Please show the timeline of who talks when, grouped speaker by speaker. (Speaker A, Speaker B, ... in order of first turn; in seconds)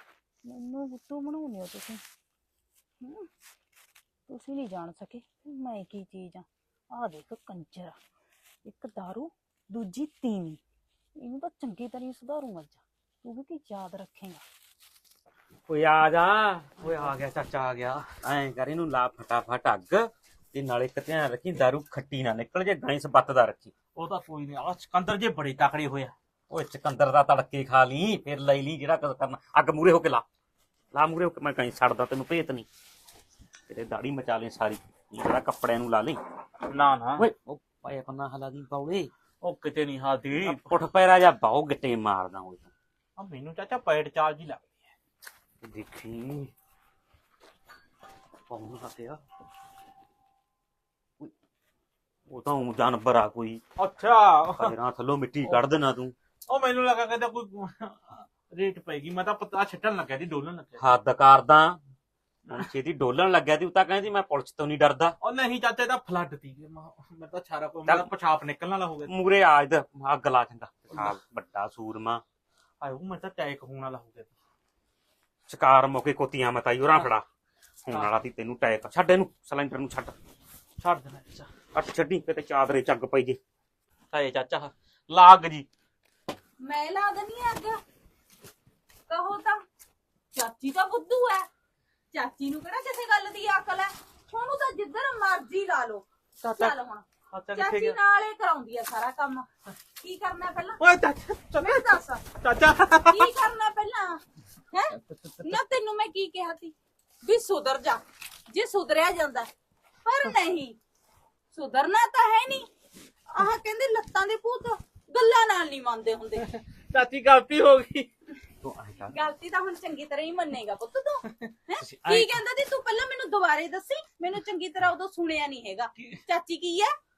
Speaker A: 0.4-2.0, 3.0-3.3, 4.3-8.0, 8.6-10.6, 11.2-14.4, 86.6-87.8, 89.1-89.6, 90.3-91.5, 92.1-99.5, 100.0-100.8, 101.6-102.2, 103.1-104.2, 104.7-109.5, 110.0-110.8, 111.5-112.7, 113.3-116.5, 119.1-126.9
Speaker B: 15.7-17.7, 18.2-23.7, 26.5-30.2, 30.9-32.7, 33.7-36.2, 37.2-39.1, 40.4-42.7, 45.6-46.5, 48.5-49.2, 52.3-53.6, 54.6-56.1, 60.8-61.8, 62.5-65.1, 69.1-72.2, 75.5-77.2, 77.8-80.1, 81.7-83.4, 104.9-105.6, 118.6-119.2, 121.8-122.4
Speaker C: 16.8-18.0, 23.9-26.1, 36.7-37.2, 39.4-40.7, 43.2-44.8, 53.8-54.7, 56.5-60.9, 65.2-69.1, 72.8-74.3, 80.8-81.5, 84.1-85.7, 96.4-96.7, 97.3-98.0, 100.8-103.3, 116.5-118.1, 121.2-121.5